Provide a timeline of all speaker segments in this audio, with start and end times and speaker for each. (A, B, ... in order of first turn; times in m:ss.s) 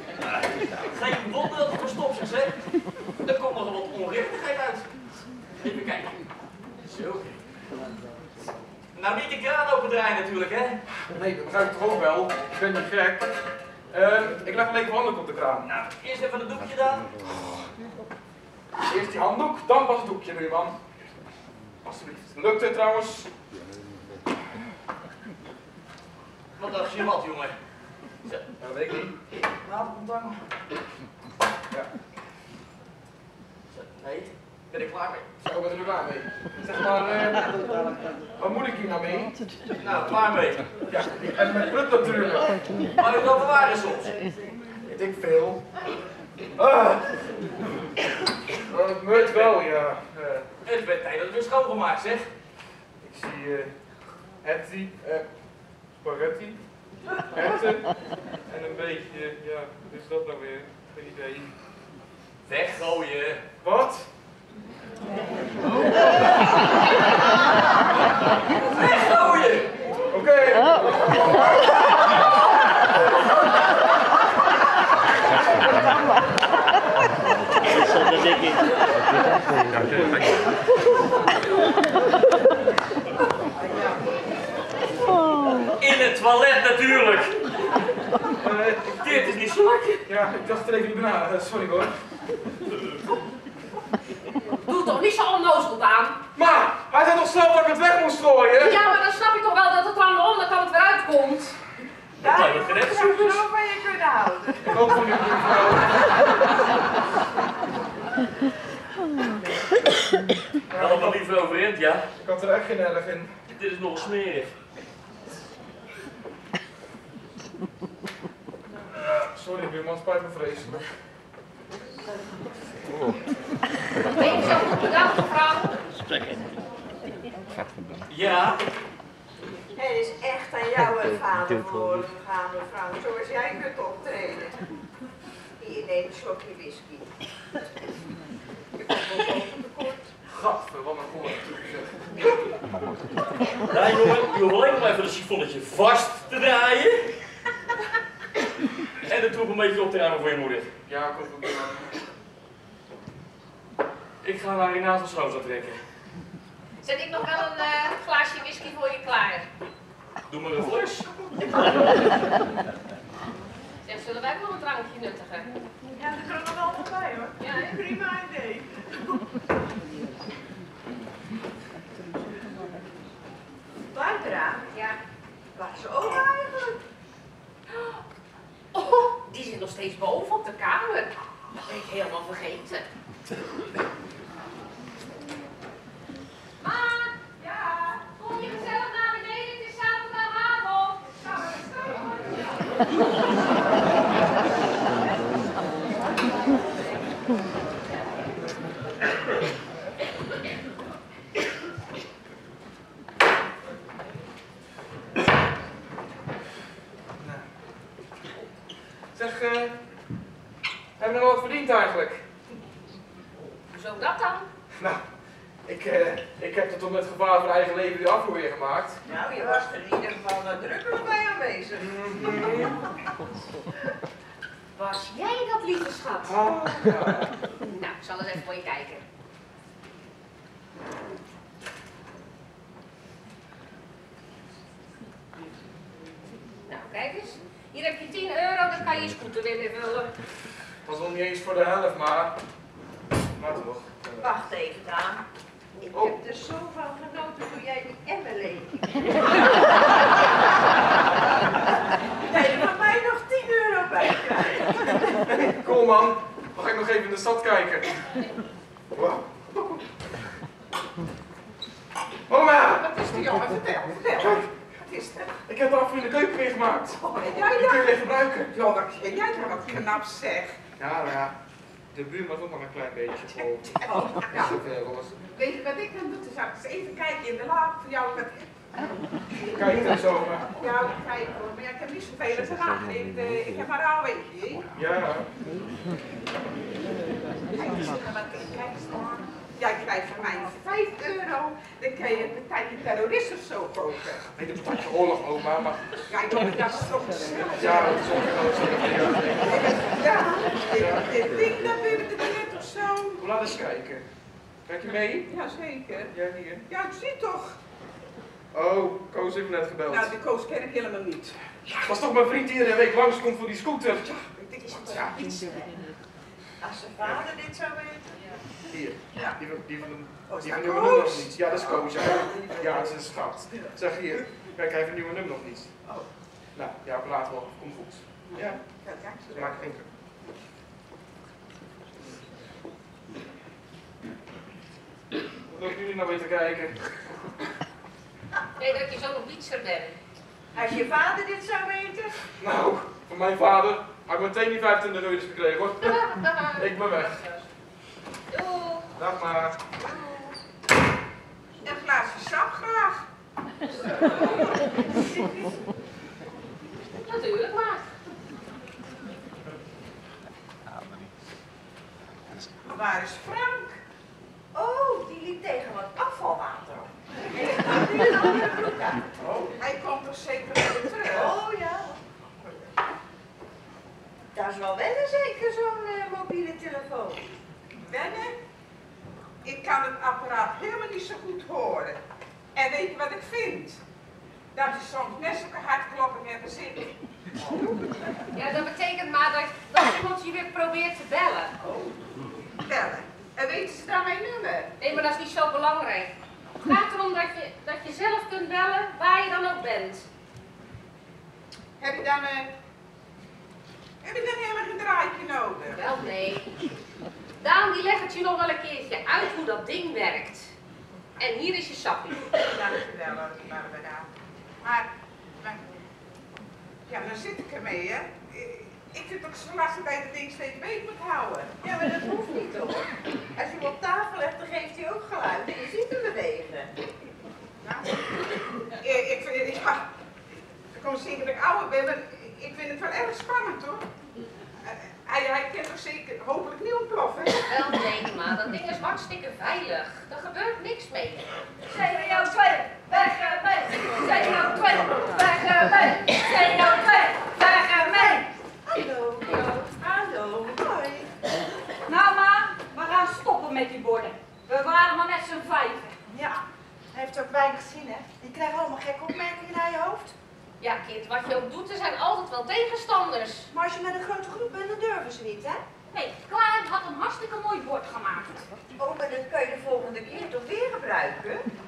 0:00.6-0:02.6 A
0:03.2-0:04.9 A
0:05.6-0:06.2 A
0:06.8-0:07.4 A
0:08.9-0:10.8 A
0:11.1-0:13.4 B
0:13.9-0:15.7 B
0:15.6-0:17.1 A
0:18.8-0:20.8 B
0:21.8-0:23.3 B
0:26.6-0:27.5 A
0:28.6-0:29.1 B
0:29.7-0:30.4 A
0:33.7-0:35.3 A
0:35.4-0:37.5 B
0:38.4-0:39.3 B
0:39.8-0:40.6 A
0:40.9-0:42.5 B
0:43.0-0:44.2 A
0:44.8-0:45.6 B
0:46.6-0:47.1 B
0:48.6-0:50.5 B
0:49.1-0:49.6 A
0:50.6-0:52.3 A
0:53.0-0:53.7 B
0:54.4-0:55.2 B
0:56.0-0:56.6 B
0:57.3-0:57.9 B
0:58.5-1:01.5 B
1:02.4-1:03.4 A
1:03.6-1:04.1 B
1:08.6-1:09.7 A
1:10.1-1:11.2 B
1:17.9-1:18.6 A
1:25.8-1:27.4 A
1:28.4-1:29.1 B
1:28.9-1:30.1 A
1:30.1-1:31.9 B
1:34.6-1:36.2 C
1:36.4-1:38.8 B
1:38.6-1:41.6 C
1:42.2-1:43.5 A
1:42.2-1:44.8 D
1:44.6-1:46.0 B
1:50.7-1:51.2 B
1:50.7-1:52.1 A
1:52.2-1:53.3 B
1:53.5-1:54.5 A
1:59.2-2:00.8 B
2:04.1-2:05.8 C
2:08.1-2:08.6 A
2:09.7-2:14.6 D
2:15.6-2:17.1 D
2:18.8-2:20.1 D
2:20.3-2:22.0 B
2:23.7-2:27.2 A
2:29.0-2:30.7 A
2:30.9-2:31.9 B
2:34.2-2:35.8 A
2:36.8-2:39.5 C
2:40.3-2:41.1 A
2:43.8-2:45.5 C
2:45.8-2:49.1 D
2:47.4-2:47.8 C
2:53.9-2:54.6 D
2:54.7-2:55.0 C
2:55.5-2:56.8 D
2:57.7-2:58.0 C
2:58.7-3:02.9 C
3:06.6-3:12.5 C
3:27.2-3:27.4 B
3:29.1-3:29.8 B
3:31.0-3:32.2 B
3:33.7-3:34.5 C
3:34.7-3:35.0 B
3:35.6-3:39.0 B
3:39.1-3:42.7 D
3:41.8-3:42.8 B
3:44.8-3:46.4 C
3:46.2-3:47.3 B
3:47.7-3:49.0 C
3:56.6-4:00.1 C
4:00.8-4:02.4 B
4:03.4-4:04.3 B
4:04.2-4:05.2 D
4:05.8-4:09.2 D
4:12.2-4:14.8 D
4:15.4-4:18.0 B
4:18.9-4:19.8 B
4:22.3-4:22.9 B
4:22.8-4:25.4 E
4:24.2-4:24.5 B
4:25.5-4:28.5 B
4:27.1-4:30.6 E
4:30.8-4:31.4 B
4:31.9-4:33.8 B
4:33.7-4:34.5 E
4:34.4-4:35.2 B
4:35.2-4:38.5 E
4:39.5-4:40.5 B
4:40.6-4:44.6 E
4:44.8-4:45.3 B
4:47.5-4:54.3 E
4:54.3-4:56.2 B
4:56.1-4:58.3 E
4:57.5-4:59.5 B
4:59.4-5:03.2 E
5:00.7-5:01.1 B
5:03.2-5:04.0 B
5:04.6-5:05.3 B
5:05.3-5:06.1 E
5:06.1-5:06.6 B
5:06.7-5:07.6 E
5:08.5-5:10.1 B
5:09.9-5:11.4 E
5:11.8-5:14.1 B
5:14.0-5:15.7 E
5:14.9-5:15.3 B
5:16.6-5:18.2 D
5:18.7-5:25.7 B
5:20.3-5:21.3 E
5:22.3-5:22.6 E
5:26.5-5:28.6 B
5:28.3-5:29.7 E
5:29.3-5:29.9 B
5:35.5-5:36.9 B
5:38.6-5:40.0 C
5:40.5-5:42.2 D
5:42.4-5:46.0 B
5:45.8-5:47.4 C
5:46.6-5:47.2 B
5:48.3-5:48.9 C
5:49.0-5:49.6 B
5:51.6-5:53.0 E
5:57.0-5:57.8 C
6:02.6-6:03.8 E
6:04.5-6:06.9 D
6:08.8-6:09.3 D
6:09.4-6:11.3 E
6:11.1-6:11.9 D
6:12.4-6:12.7 E
6:14.3-6:17.2 D
6:17.8-6:18.4 E
6:19.4-6:22.0 E
6:22.6-6:23.8 E
6:24.5-6:27.0 E
6:27.4-6:27.9 D
6:28.3-6:31.5 C
6:31.6-6:31.9 D
6:32.6-6:34.7 E
6:34.8-6:40.1 C
6:41.8-6:42.5 E
6:44.0-6:45.8 E
6:45.7-6:46.5 C
6:47.4-6:50.6 C
6:51.2-6:52.4 C
6:52.5-6:54.1 E
6:54.6-6:54.9 E
6:55.4-6:55.6 E
6:56.9-7:01.5 E
7:01.6-7:06.8 D
7:08.7-7:09.9 E
7:10.7-7:13.8 E
7:14.6-7:17.5 E
7:17.5-7:21.4 C
7:21.7-7:24.6 F
7:23.7-7:28.1 C
7:25.2-7:28.3 F
7:28.6-7:31.1 D
7:29.2-7:29.7 C
7:31.9-7:36.0 F
7:36.9-7:40.1 G
7:40.6-7:43.5 C
7:45.1-7:45.4 G
7:45.9-7:48.5 F
7:48.8-7:51.5 D